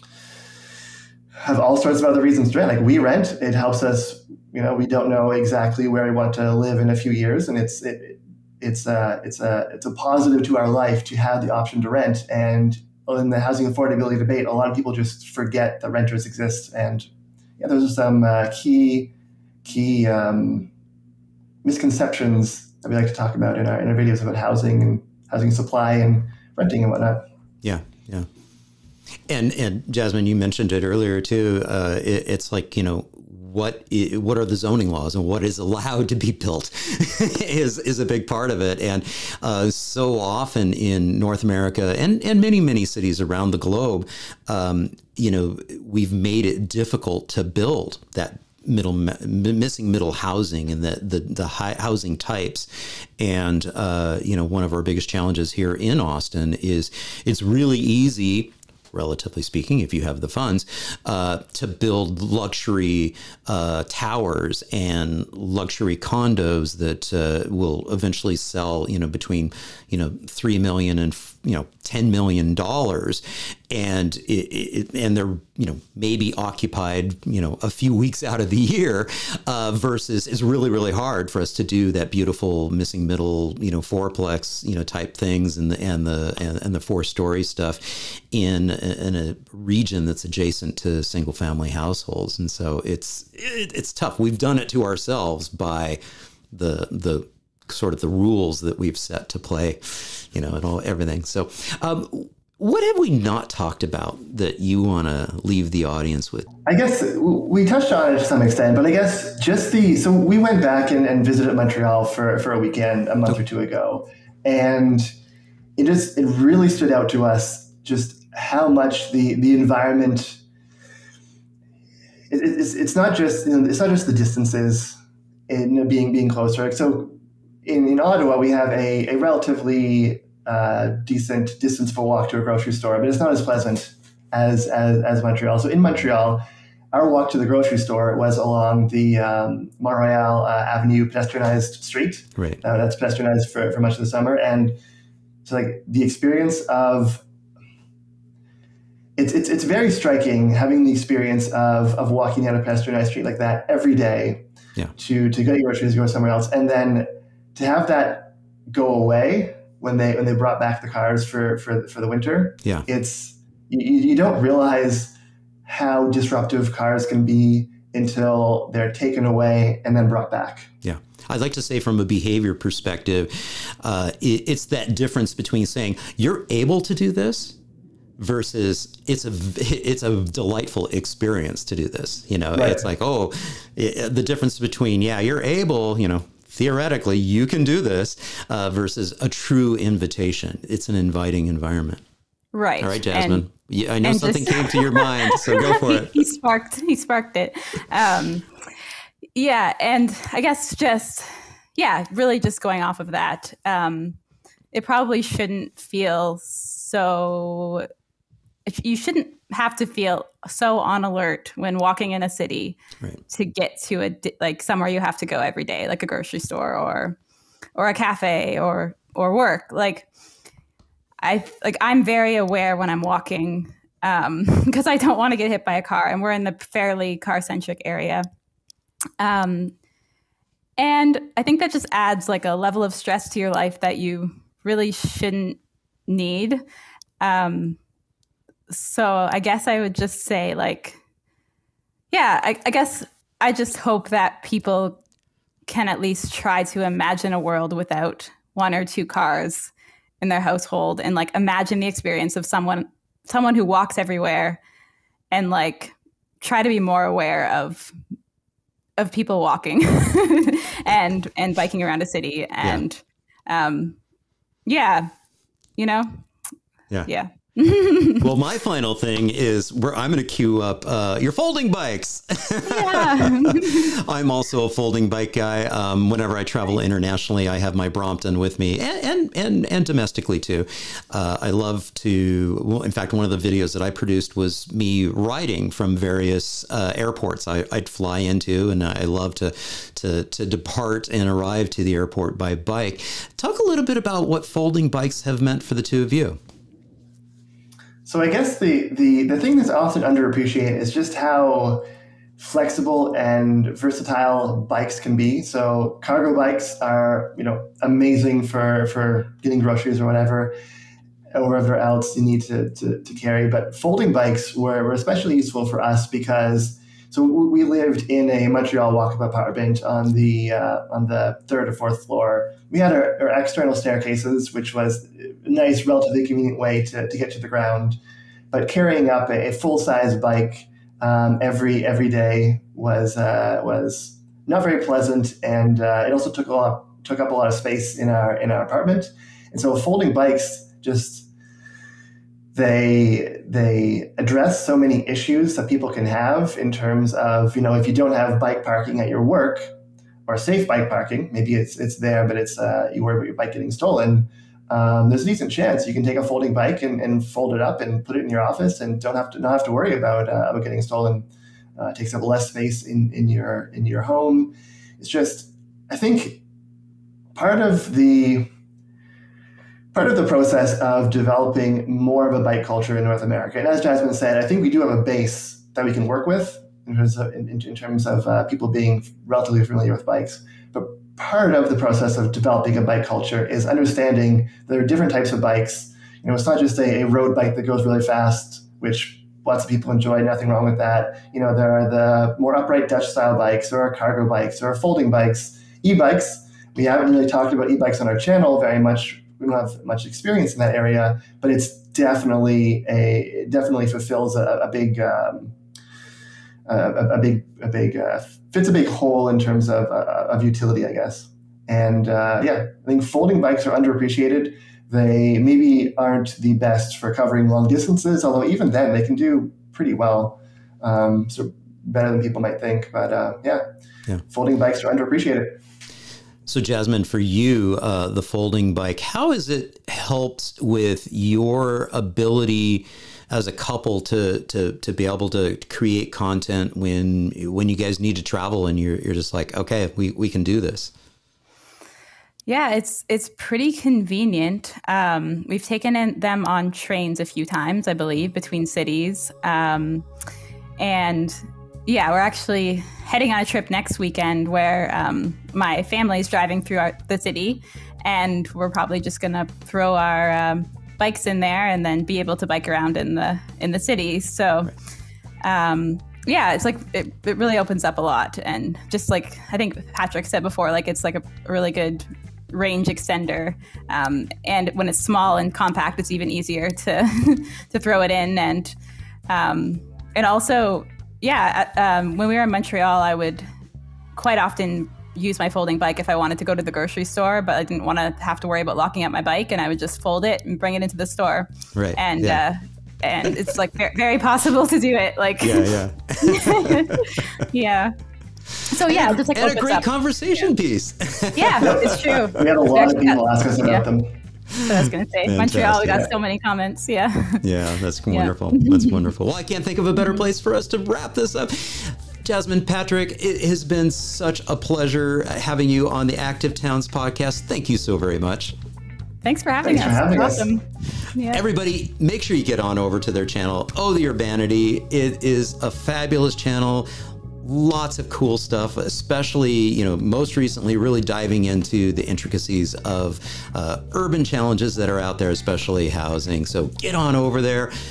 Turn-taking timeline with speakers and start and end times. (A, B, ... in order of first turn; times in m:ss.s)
0:01.4-0:17.1 A
0:17.6-0:19.1 A
0:19.6-0:20.7 A
0:21.6-0:27.2 A
0:27.6-0:28.3 B
0:29.3-1:36.0 B
1:36.5-1:46.5 B
1:46.6-1:55.1 A
1:55.8-2:00.4 A
2:02.3-2:24.8 A
2:25.4-2:27.2 A
2:29.2-2:34.4 A
2:35.0-2:45.1 A
2:45.6-2:50.7 A
2:50.8-2:57.6 B
2:58.2-3:12.0 B
3:02.6-3:02.8 A
3:12.5-3:13.4 C
3:12.8-3:16.2 B
3:14.0-3:18.4 C
3:19.3-3:24.2 C
3:24.7-3:27.9 C
3:28.7-3:37.2 C
3:37.7-3:40.1 C
3:41.2-3:48.2 C
3:49.2-3:49.7 C
3:50.8-3:56.6 C
3:57.2-3:57.8 C
3:58.7-4:01.0 C
4:02.1-4:05.0 C
4:05.7-4:14.6 C
4:15.3-4:17.9 C
4:19.0-4:24.0 C
4:24.6-4:25.1 C
4:25.8-4:26.2 C
4:27.1-4:28.2 C
4:28.2-4:56.4 B
4:32.6-4:33.9 C
4:58.0-5:01.8 A
5:02.4-5:10.5 A
5:11.3-5:28.0 A
5:28.5-5:41.3 A
5:42.5-5:49.7 A
5:50.3-6:06.4 A
6:07.3-6:08.5 A
6:09.9-6:45.6 A
6:46.7-7:03.6 A
7:04.3-7:05.6 A
7:06.4-7:20.9 B
7:22.5-7:30.0 C
7:30.8-7:44.7 C
7:45.4-7:58.7 C
7:59.3-8:03.4 C
8:04.1-8:17.9 C
8:11.7-8:12.4 B
8:15.4-8:17.4 B
8:18.6-8:22.3 B
8:18.7-8:19.8 C
8:21.4-8:23.8 C
8:21.6-8:24.1 A
8:24.5-8:26.1 B
8:24.6-8:27.4 C
8:27.4-8:38.6 B
8:28.1-8:29.1 C
8:30.0-8:30.2 C
8:39.2-8:41.4 C
8:39.6-8:40.5 A
8:41.3-8:46.9 B
8:47.4-8:57.7 B